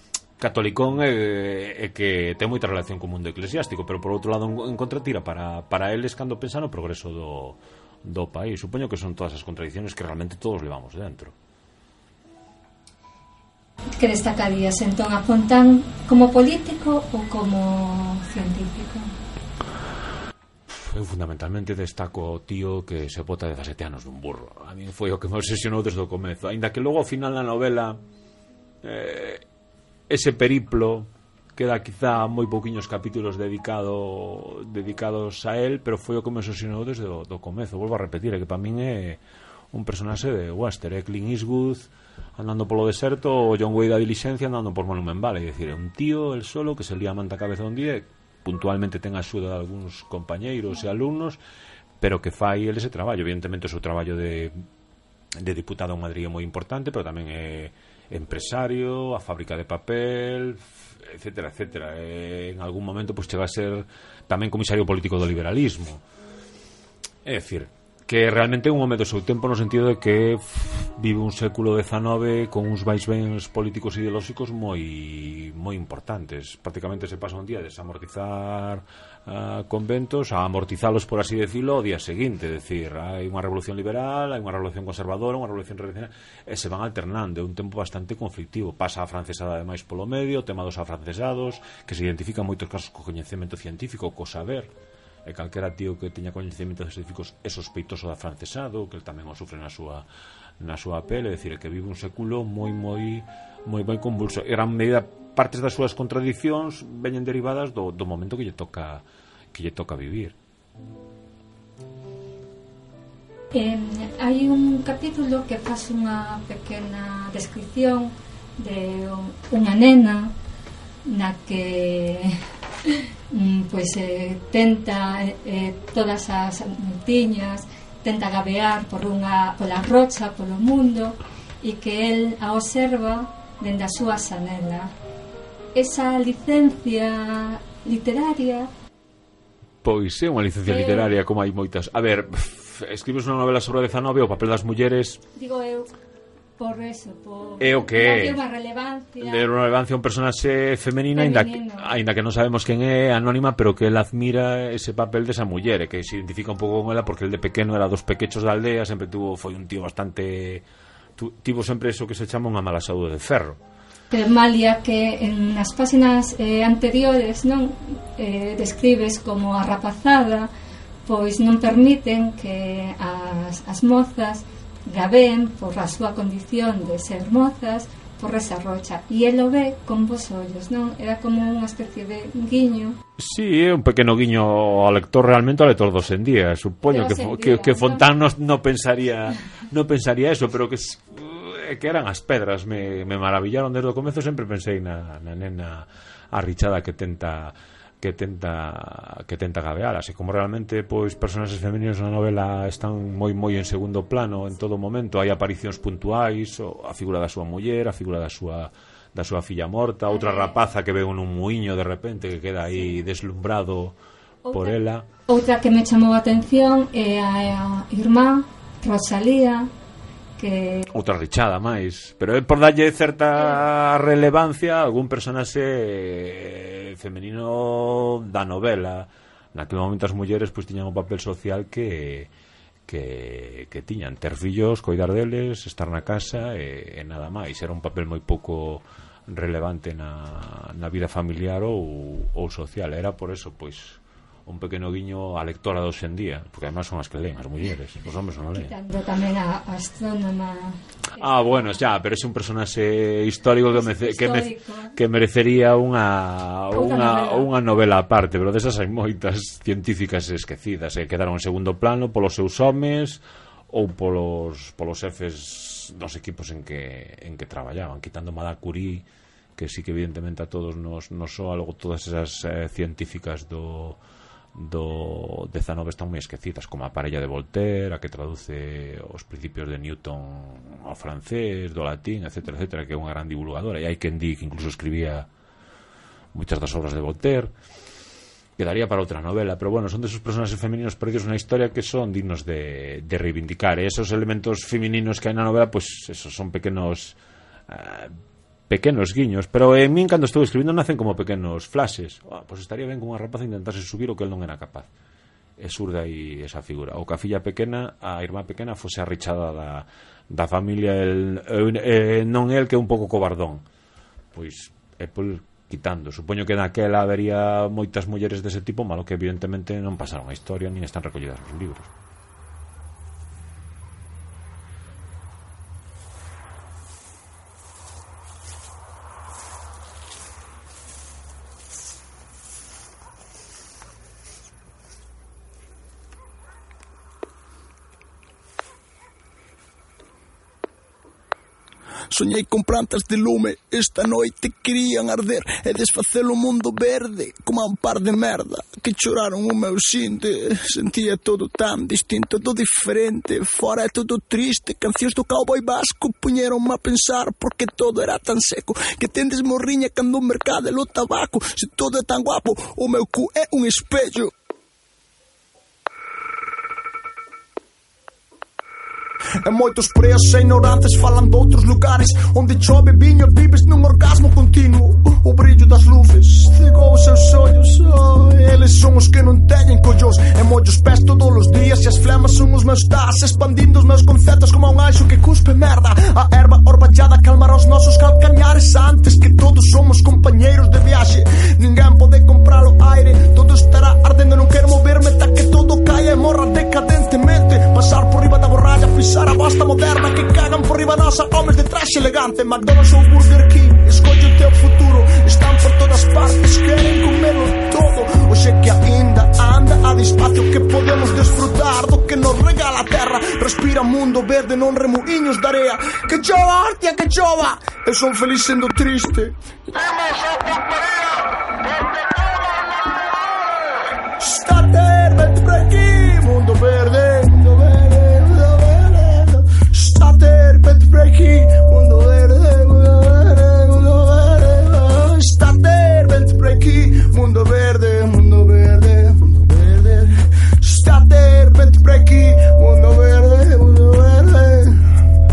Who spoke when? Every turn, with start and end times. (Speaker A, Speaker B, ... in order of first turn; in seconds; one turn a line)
Speaker A: 0.4-11.3
Speaker B: 13.9-19.1
Speaker A: 20.7-28.0
Speaker A: 28.8-29.4
Speaker A: 30.1-39.2
Speaker A: 39.7-51.4
Speaker A: 52.0-54.6
Speaker A: 55.4-66.0
Speaker A: 67.2-94.7
Speaker A: 95.2-100.0
Speaker A: 100.6-110.3
Speaker B: 113.5-120.3
Speaker B: 121.0-134.9
Speaker B: 135.7-138.7
Speaker A: 139.8-145.2
Speaker B: 140.7-141.1
Speaker B: 145.3-145.9
Speaker B: 146.6-149.4
Speaker A: 147.6-148.4
Speaker A: 149.2-160.6
Speaker B: 151.1-151.9
Speaker A: 161.2-163.6
Speaker B: 164.1-170.5
Speaker B: 171.1-183.0
Speaker A: 183.2-213.9
Speaker B: 186.8-188.1
Speaker B: 214.4-219.7
Speaker A: 214.5-215.1
Speaker B: 220.4-220.9
Speaker A: 220.9-232.3
Speaker A: 232.8-248.7
Speaker B: 248.5-251.3
Speaker A: 251.2-269.0
Speaker B: 253.7-254.9
Speaker B: 256.7-257.5
Speaker A: 269.6-274.0
Speaker A: 274.5-285.3
Speaker A: 286.3-287.5
Speaker A: 288.6-297.2
Speaker A: 297.7-298.2
Speaker A: 298.7-304.9
Speaker A: 305.6-313.6
Speaker A: 314.3-321.9
Speaker C: 342.1-364.3
Speaker C: 369.4-419.4
Speaker C: 424.2-445.0